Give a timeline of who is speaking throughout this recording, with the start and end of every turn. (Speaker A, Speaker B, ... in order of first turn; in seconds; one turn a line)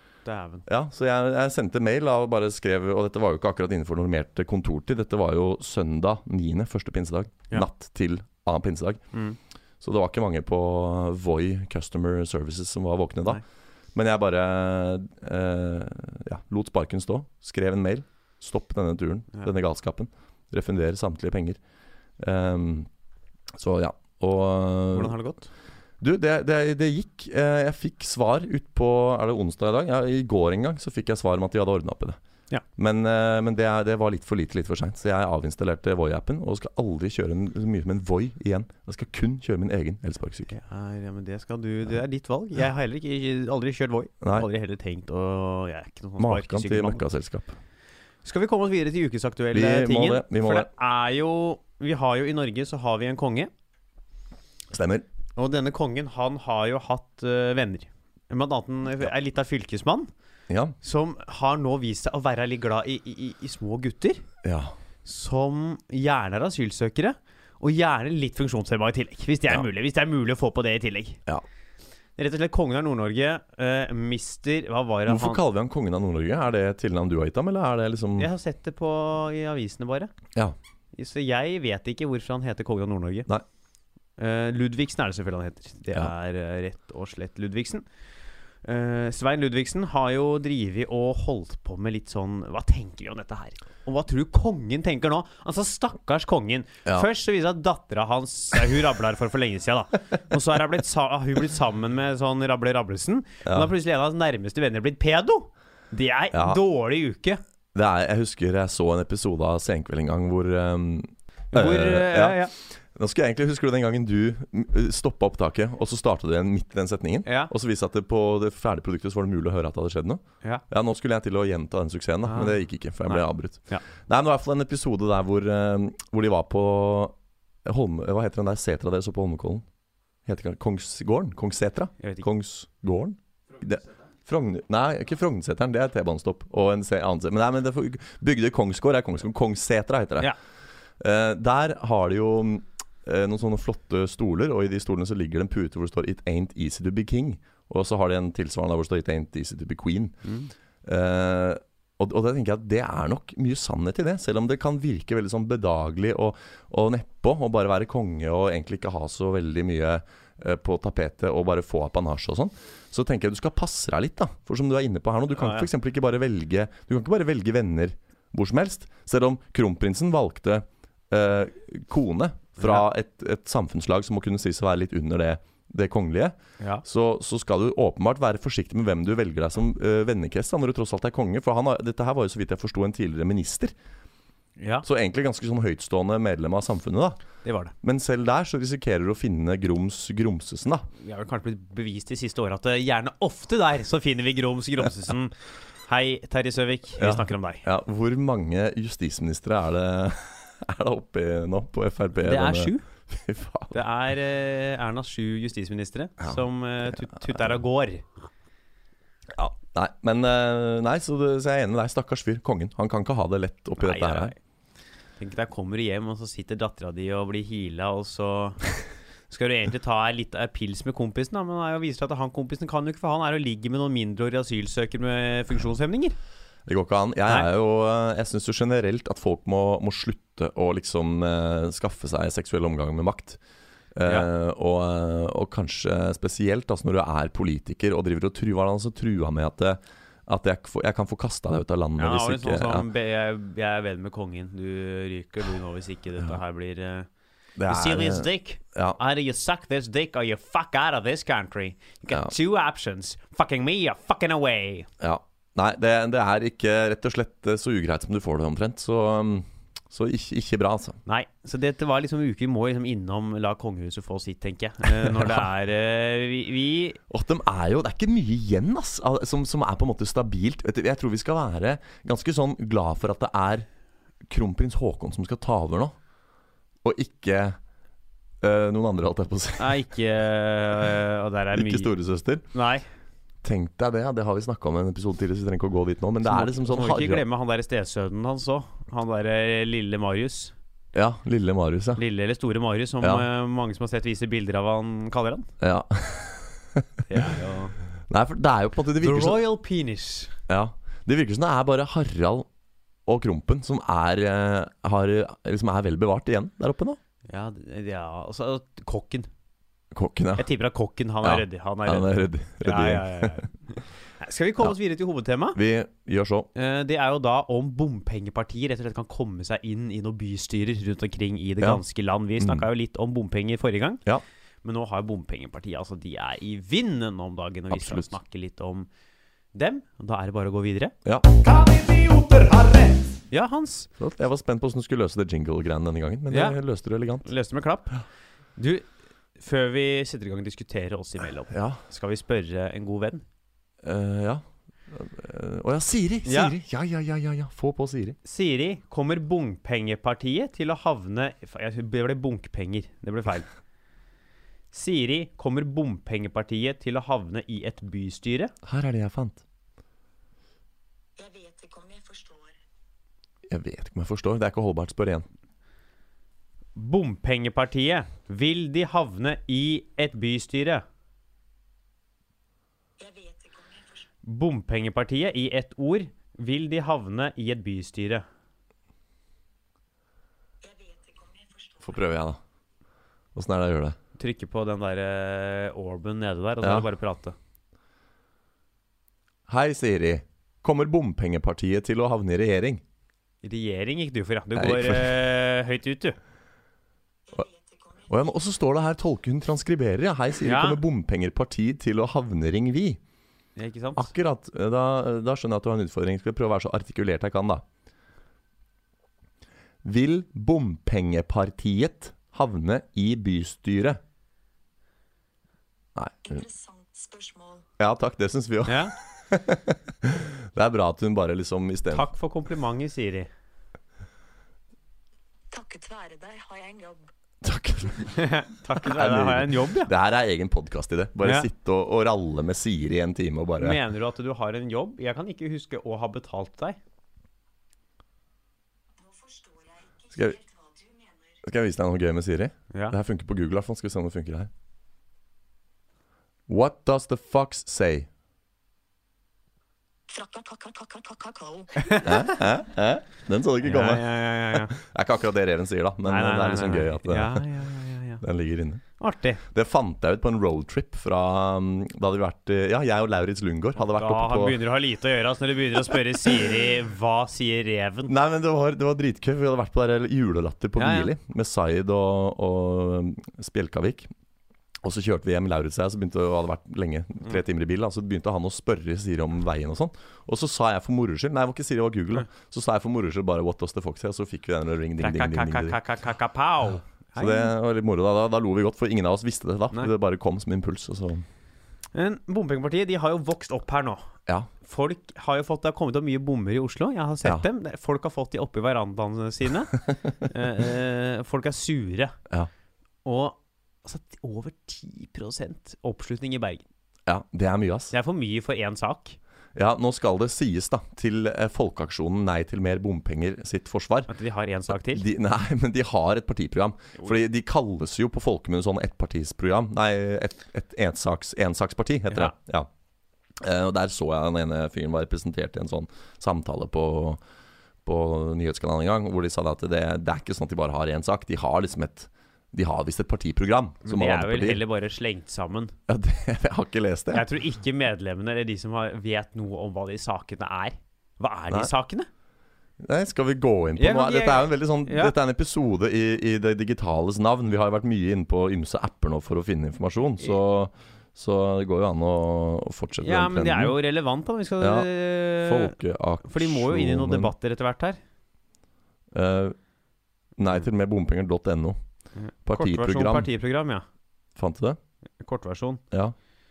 Speaker A: 0.2-0.6
Speaker B: 0.7-9.1
Speaker A: 9.1-9.4
Speaker B: 9.8-13.4
Speaker B: 13.9-21.6
Speaker B: 22.2-22.9
Speaker B: 23.6-25.1
Speaker A: 24.9-25.5
Speaker B: 26.0-32.2
Speaker B: 32.8-40.5
Speaker A: 40.5-47.0
Speaker B: 44.2-44.5
Speaker B: 46.2-47.6
Speaker A: 48.2-53.5
Speaker B: 49.5-50.7
Speaker B: 54.7-55.0
Speaker A: 55.4-60.1
Speaker B: 60.5-60.7
Speaker A: 60.8-64.2
Speaker B: 64.4-64.7
Speaker A: 65.0-71.2
Speaker A: 72.2-75.4
Speaker B: 75.1-78.3
Speaker A: 78.2-80.1
Speaker A: 80.9-83.3
Speaker A: 84.2-87.8
Speaker A: 88.6-107.4
Speaker B: 103.4-103.7
Speaker B: 106.3-106.6
Speaker B: 107.7-129.6
Speaker A: 111.5-112.5
Speaker A: 117.2-117.5
Speaker A: 122.2-123.8
Speaker B: 130.2-140.3
Speaker B: 141.0-150.2
Speaker A: 150.2-150.5
Speaker B: 150.8-183.7
Speaker A: 165.4-165.7
Speaker A: 172.6-172.8
Speaker A: 184.6-184.9
Speaker B: 184.8-187.2
Speaker A: 187.4-187.7
Speaker B: 187.8-190.9
Speaker A: 191.0-197.6
Speaker B: 197.0-203.8
Speaker A: 202.2-202.9
Speaker A: 203.7-208.1
Speaker B: 207.0-207.5
Speaker B: 209.3-214.3
Speaker A: 213.8-214.4
Speaker A: 215.2-218.7
Speaker A: 219.3-226.2
Speaker B: 226.7-233.4
Speaker B: 233.9-242.9
Speaker A: 242.0-247.1
Speaker B: 247.6-249.0
Speaker A: 247.7-254.9
Speaker B: 255.0-261.0
Speaker A: 261.1-267.0
Speaker B: 264.9-265.4
Speaker B: 267.1-273.7
Speaker B: 274.2-275.9
Speaker B: 276.8-277.6
Speaker B: 278.4-279.8
Speaker A: 279.6-281.9
Speaker B: 281.5-282.4
Speaker A: 282.5-282.9
Speaker B: 283.4-287.2
Speaker A: 286.2-290.5
Speaker B: 290.9-292.0
Speaker A: 292.0-295.5
Speaker B: 295.6-296.9
Speaker A: 297.1-297.8
Speaker B: 298.1-299.4
Speaker A: 299.0-300.4
Speaker B: 300.5-302.5
Speaker B: 303.1-307.0
Speaker A: 307.3-309.3
Speaker B: 309.9-310.5
Speaker A: 310.4-315.6
Speaker B: 311.2-313.4
Speaker B: 315.6-316.5
Speaker A: 316.6-324.0
Speaker B: 322.4-322.7
Speaker A: 324.6-328.9
Speaker B: 327.7-328.1
Speaker A: 329.5-330.9
Speaker A: 331.6-333.9
Speaker B: 334.0-337.3
Speaker A: 336.3-336.6
Speaker A: 337.2-338.0
Speaker A: 338.6-343.2
Speaker B: 341.5-341.8
Speaker B: 343.8-348.2
Speaker A: 346.2-346.5
Speaker A: 348.2-353.5
Speaker A: 354.7-358.5
Speaker B: 358.6-359.4
Speaker C: 361.2-362.6
Speaker B: 363.5-365.2
Speaker A: 366.8-370.8
Speaker C: 373.0-374.1
Speaker A: 374.2-378.2
Speaker C: 380.6-382.1
Speaker B: 381.8-382.4
Speaker B: 383.4-384.0
Speaker A: 384.2-387.4
Speaker B: 386.6-386.9
Speaker B: 389.5-392.8
Speaker A: 393.4-396.1
Speaker B: 394.6-395.2
Speaker C: 397.3-398.4
Speaker B: 398.1-403.0
Speaker A: 400.4-400.8
Speaker A: 403.6-404.1
Speaker B: 404.0-407.6
Speaker B: 409.8-414.0
Speaker B: 415.9-416.4
Speaker C: 416.3-417.6
Speaker B: 417.8-422.1
Speaker A: 418.6-418.9
Speaker A: 421.9-423.3
Speaker C: 425.5-427.1
Speaker B: 427.4-428.2
Speaker A: 428.1-429.9
Speaker B: 428.8-433.8
Speaker A: 431.2-431.5
Speaker A: 433.6-436.8
Speaker C: 439.0-441.4
Speaker B: 440.1-440.4
Speaker B: 441.4-444.5
Speaker B: 446.5-448.1
Speaker C: 450.1-452.4
Speaker A: 451.8-452.3
Speaker B: 452.0-457.4
Speaker A: 453.6-454.7
Speaker A: 456.1-458.2
Speaker B: 458.2-458.8
Speaker A: 459.0-459.4
Speaker B: 459.5-464.6
Speaker A: 463.9-468.1
Speaker B: 468.1-474.1
Speaker A: 470.8-471.1
Speaker B: 474.8-485.8
Speaker A: 485.0-487.5
Speaker B: 487.2-491.2
Speaker A: 491.9-494.0
Speaker A: 494.6-502.1
Speaker A: 503.0-506.6
Speaker B: 507.1-507.9
Speaker A: 507.9-509.2
Speaker B: 509.6-514.1
Speaker A: 514.1-515.0
Speaker B: 514.7-522.7
Speaker B: 523.4-527.2
Speaker B: 527.9-534.6
Speaker A: 533.9-535.7
Speaker B: 535.9-537.2
Speaker A: 537.1-542.1
Speaker B: 542.8-553.8
Speaker A: 543.8-545.1
Speaker A: 553.0-558.0
Speaker B: 554.6-557.3
Speaker B: 559.1-559.6
Speaker B: 560.4-561.8
Speaker A: 562.1-563.9
Speaker B: 562.4-563.3
Speaker B: 564.4-564.8
Speaker A: 565.2-565.8